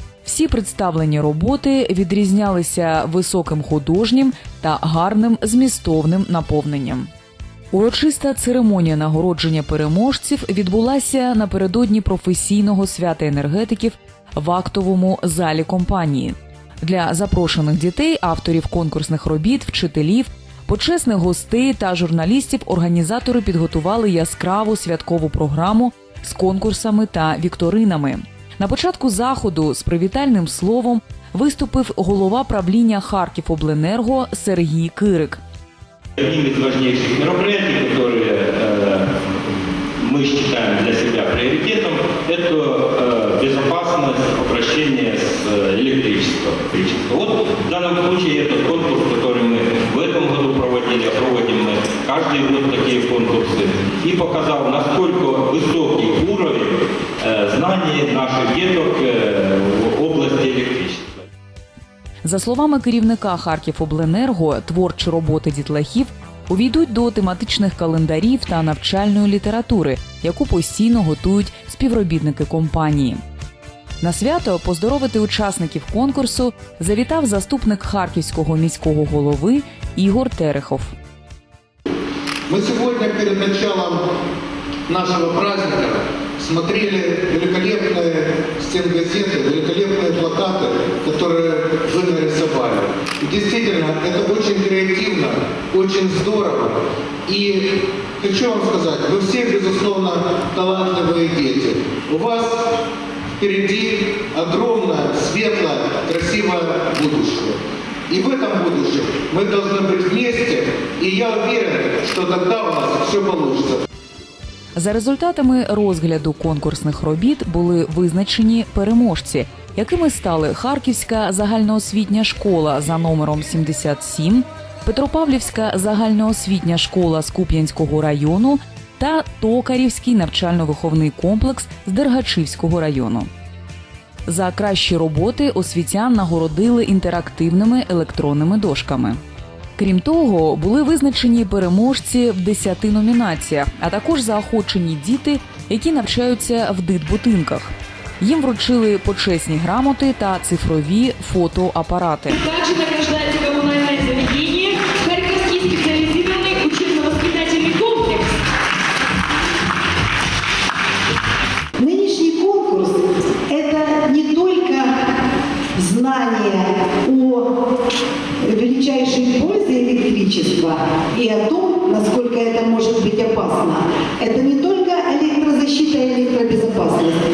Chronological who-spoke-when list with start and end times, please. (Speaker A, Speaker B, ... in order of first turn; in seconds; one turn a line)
Speaker A: 0.2-7.1
Speaker A: 7.7-35.4
Speaker B: 36.2-39.1
Speaker B: 40.0-61.2
Speaker A: 62.2-73.2
Speaker A: 74.0-80.9
Speaker C: 82.5-84.0
Speaker C: 84.9-102.8
Speaker C: 103.4-113.8
Speaker A: 114.8-133.3
Speaker A: 134.3-139.2
Speaker A: 139.8-152.4
Speaker D: 152.3-158.3
Speaker E: 161.8-164.9
Speaker E: 165.8-167.5
Speaker E: 168.4-177.2